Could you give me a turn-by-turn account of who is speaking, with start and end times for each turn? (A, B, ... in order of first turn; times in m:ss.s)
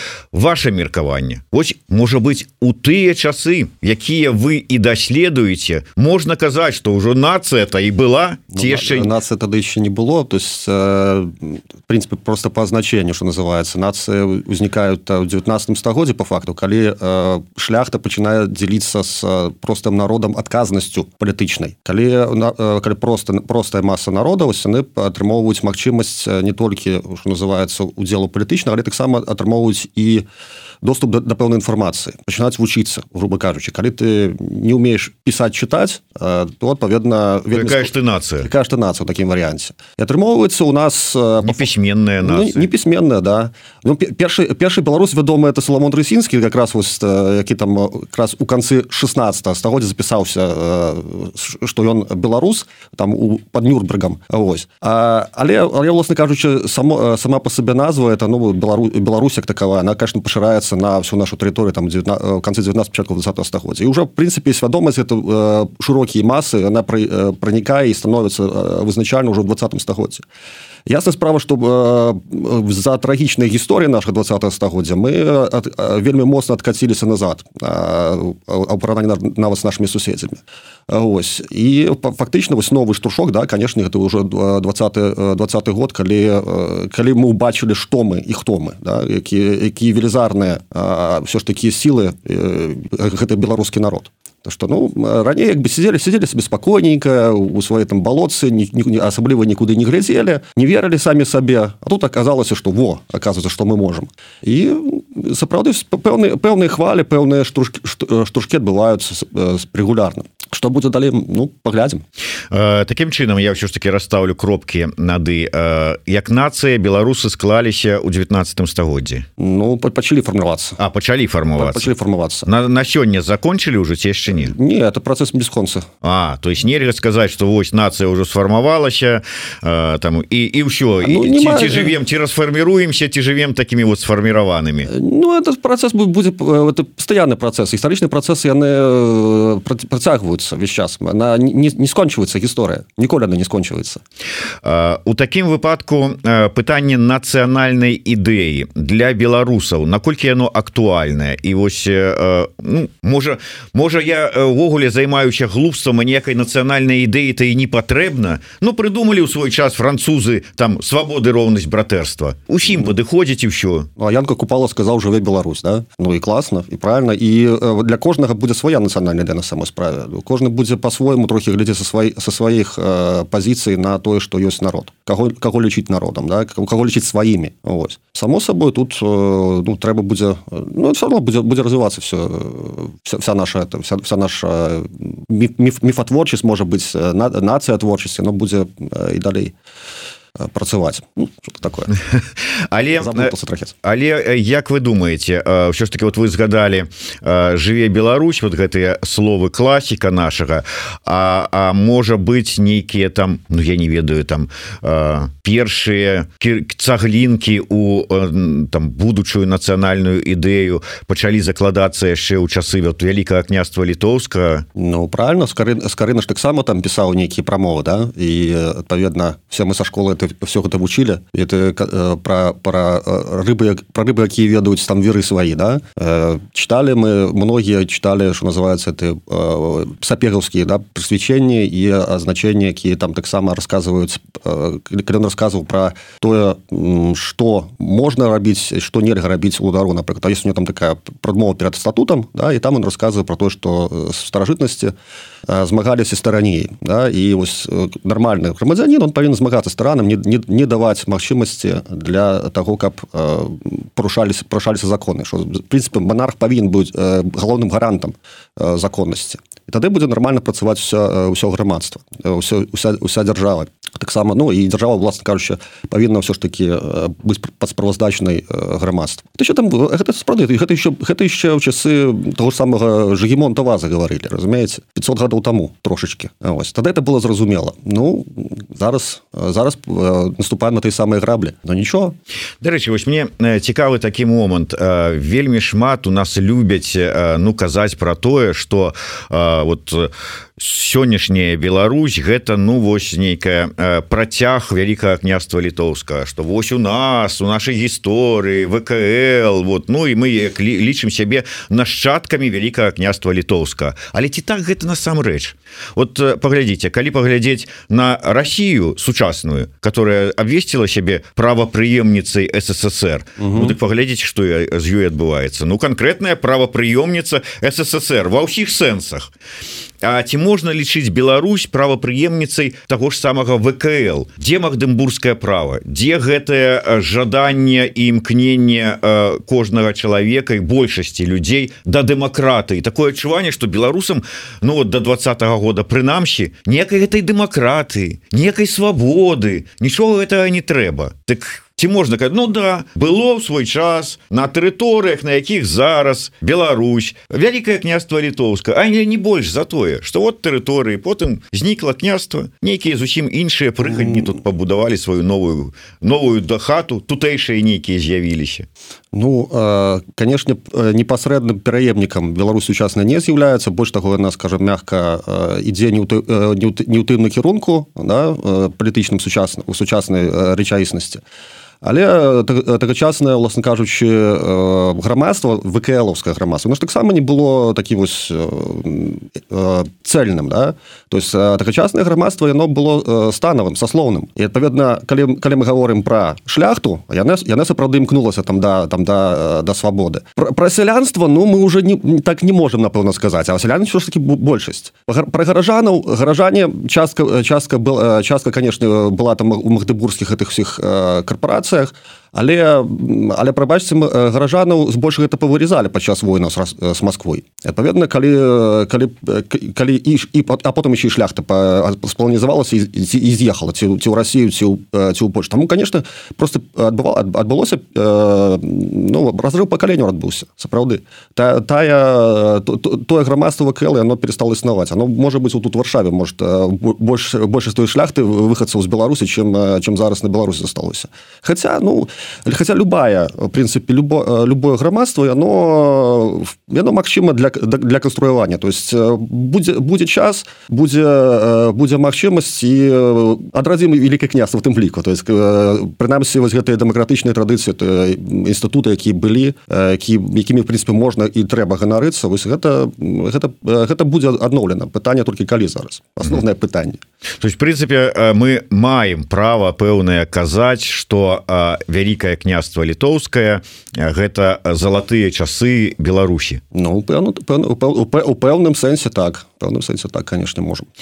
0:00.3-0:09.1 A
0:08.5-0:30.2 B
0:30.8-0:41.7 B
0:37.5-0:38.5 A
0:41.4-0:42.7 A
0:42.2-1:10.2 B
1:10.9-1:52.0 B
1:52.5-1:59.2 A
1:59.4-2:00.8 B
2:00.8-2:01.9 A
2:01.6-2:02.5 B
2:02.4-2:04.5 A
2:04.3-2:05.8 B
2:06.0-2:14.9 A
2:11.0-2:12.0 B
2:14.9-2:24.0 B
2:24.6-2:43.9 A
2:44.0-3:09.5 B
3:10.4-3:11.9 B
3:12.0-3:13.3 A
3:13.0-3:13.7 B
3:13.8-3:34.6 A
3:34.8-4:04.9 B
4:05.5-4:42.2 B
4:42.6-5:19.3 A
5:13.4-5:13.7 B
5:20.0-5:58.7 A
5:53.9-5:54.3 B
5:59.1-6:11.2 B
6:11.8-7:37.0 B
7:37.4-7:46.6 A
7:46.7-7:50.9 B